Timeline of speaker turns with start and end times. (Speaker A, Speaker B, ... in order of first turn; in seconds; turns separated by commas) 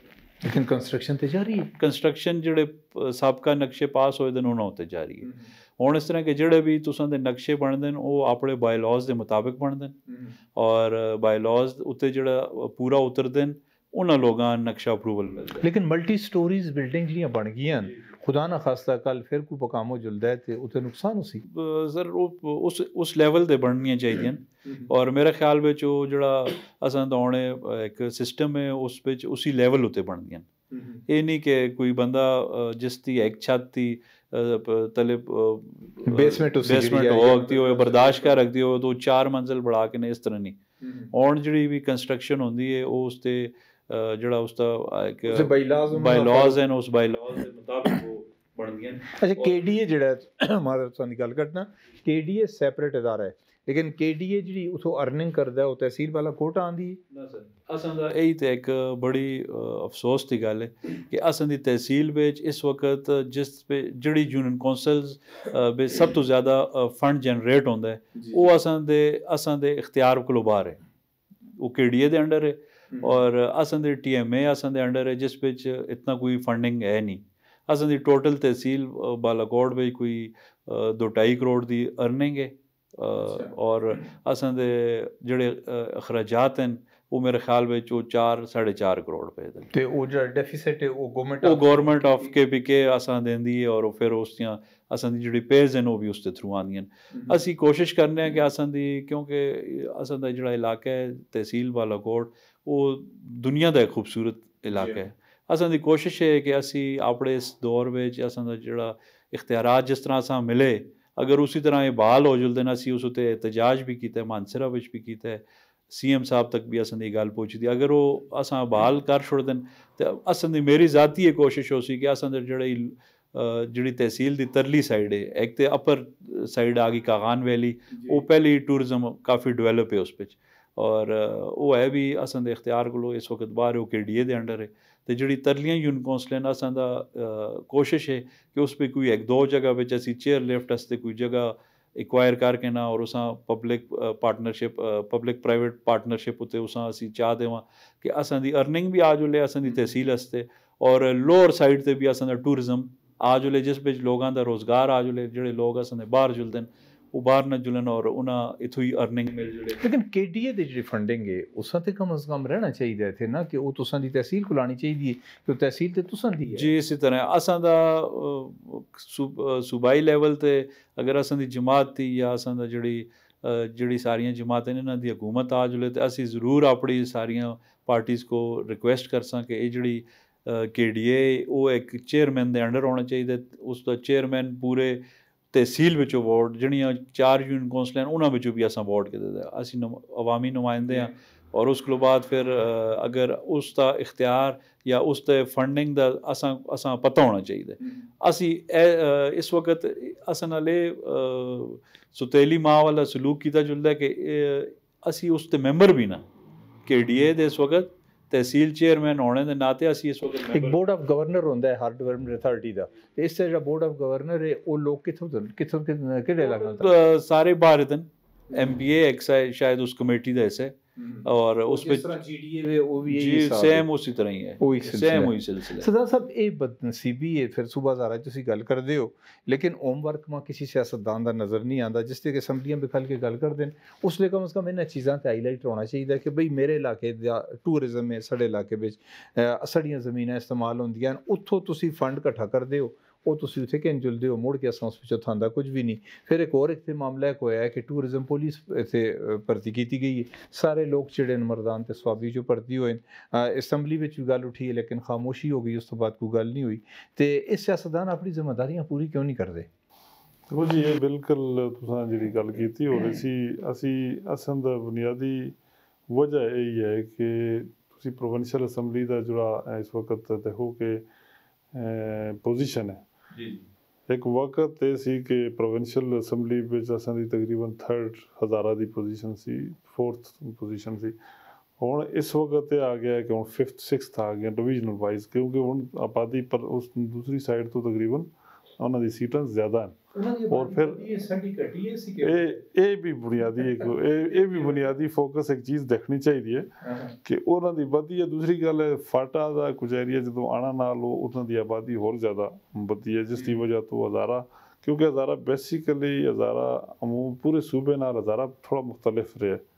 Speaker A: 0.4-1.7, Speaker B: 1.8-10.0, Speaker A: 5.2-5.5, Speaker A: 10.1-10.3, Speaker B: 10.5-15.7, Speaker A: 15.6-21.4, Speaker B: 21.4-30.5, Speaker A: 24.6-24.9, Speaker A: 30.7-31.0, Speaker B: 31.1-40.6, Speaker A: 36.0-38.4, Speaker A: 40.8-41.1, Speaker B: 41.1-49.5, Speaker A: 45.3-46.6, Speaker A: 49.1-57.0, Speaker B: 57.1-70.8, Speaker A: 68.1-68.5, Speaker B: 71.6-89.7, Speaker A: 72.9-73.2, Speaker A: 83.2-83.5, Speaker A: 89.7-92.3, Speaker B: 91.4-159.8, Speaker A: 97.1-97.4, Speaker A: 104.7-105.0, Speaker A: 127.9-128.2, Speaker A: 159.8-166.7, Speaker B: 166.5-206.2, Speaker B: 206.8-210.8, Speaker A: 210.5-216.9, Speaker B: 216.4-222.1, Speaker A: 218.5-218.8, Speaker A: 221.0-223.8, Speaker B: 223.1-225.9, Speaker A: 224.6-259.7, Speaker C: 260.5-265.6, Speaker C: 266.1-271.0, Speaker C: 271.7-273.0, Speaker A: 273.3-273.6, Speaker C: 274.1-281.1, Speaker C: 281.8-290.0, Speaker A: 290.1-292.6, Speaker C: 290.5-291.1, Speaker C: 292.2-296.7, Speaker A: 293.8-294.9, Speaker A: 296.8-297.1, Speaker C: 297.2-309.6